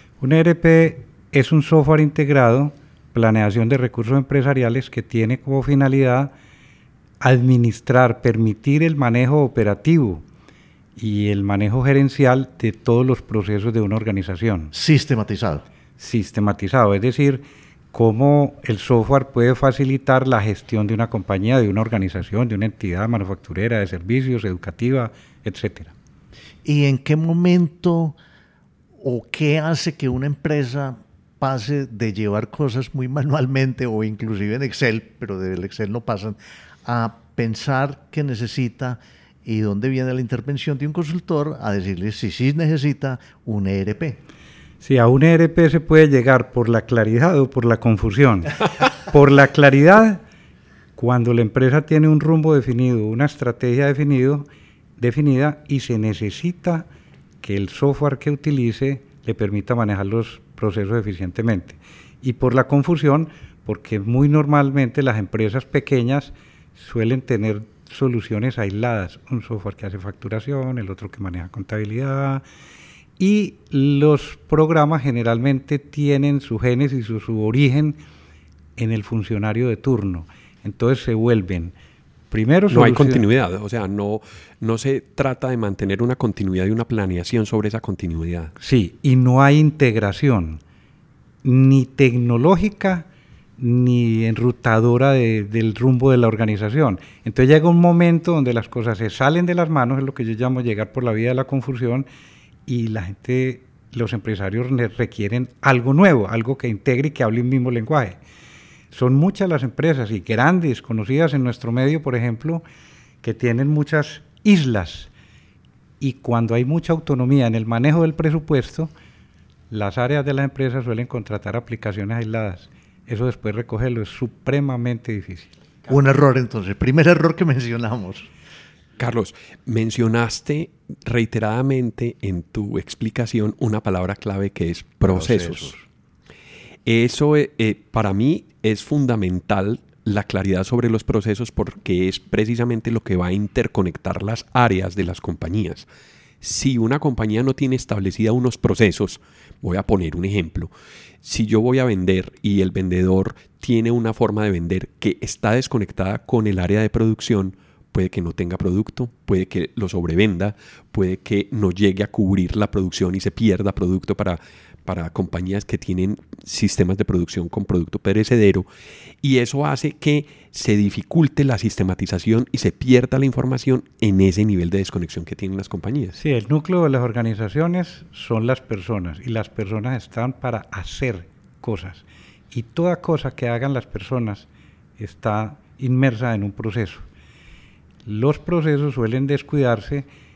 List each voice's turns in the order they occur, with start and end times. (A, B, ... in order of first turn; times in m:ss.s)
0:00.2-0:06.3 A
0:07.2-0:10.2 A
0:11.0-0:14.7 A
0:14.7-0:15.6 B
0:16.0-0:25.9 A
0:26.6-0:28.2 B
0:29.0-0:44.2 B
0:44.8-0:50.2 A
0:51.0-0:54.5 A
0:55.0-0:56.9 A
0:57.4-1:12.4 A
1:13.2-1:18.0 A
1:18.8-1:21.7 A
1:22.3-1:23.2 A
1:22.7-1:28.5 C
1:28.6-1:30.6 A
1:31.4-1:33.1 A
1:33.6-1:42.1 A
1:42.7-1:48.2 A
1:48.9-1:52.6 A
1:53.2-1:55.1 A
1:56.0-1:58.9 A
1:59.7-2:05.6 A
2:05.9-2:08.3 B
2:09.0-2:15.7 C
2:15.0-2:15.8 B
2:16.9-2:25.9 C
2:26.4-2:30.7 C
2:31.2-2:48.7 C
2:49.2-2:56.2 C
2:56.2-3:04.5 A
3:05.0-3:07.1 A
3:08.0-3:10.1 A